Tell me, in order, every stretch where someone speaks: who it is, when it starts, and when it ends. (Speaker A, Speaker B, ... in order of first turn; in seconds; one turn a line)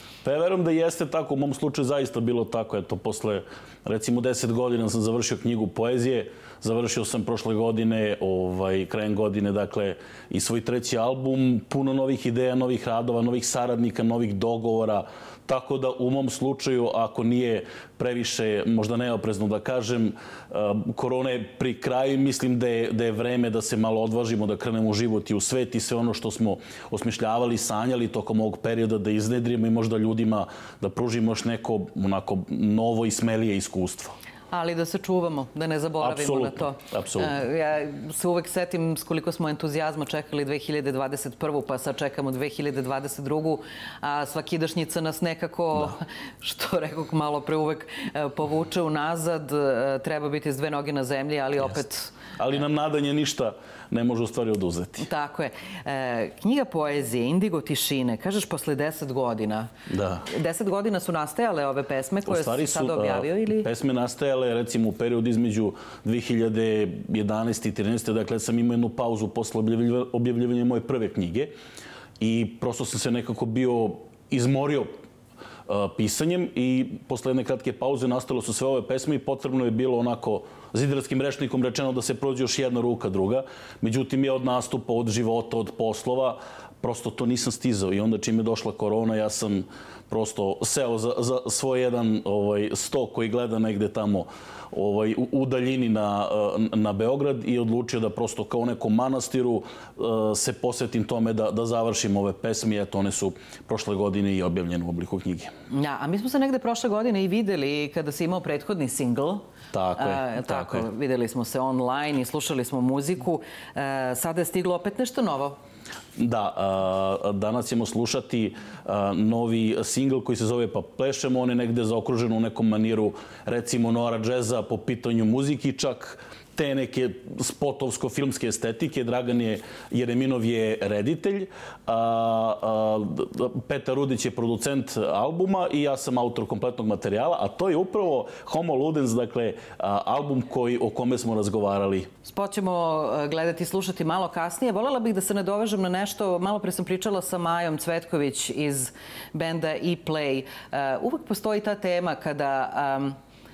Speaker A: 0.2-34.2
Speaker B: 34.5-52.2
Speaker A: 36.0-37.4
Speaker A: 52.4-55.1
Speaker B: 55.0-59.7
Speaker A: 59.9-60.2
Speaker B: 60.3-63.7
Speaker A: 62.3-71.5
Speaker A: 72.2-75.0
Speaker A: 75.7-105.5
Speaker B: 105.7-109.5
Speaker A: 109.7-110.9
Speaker B: 110.0-115.6
Speaker A: 116.2-142.1
Speaker B: 142.3-153.2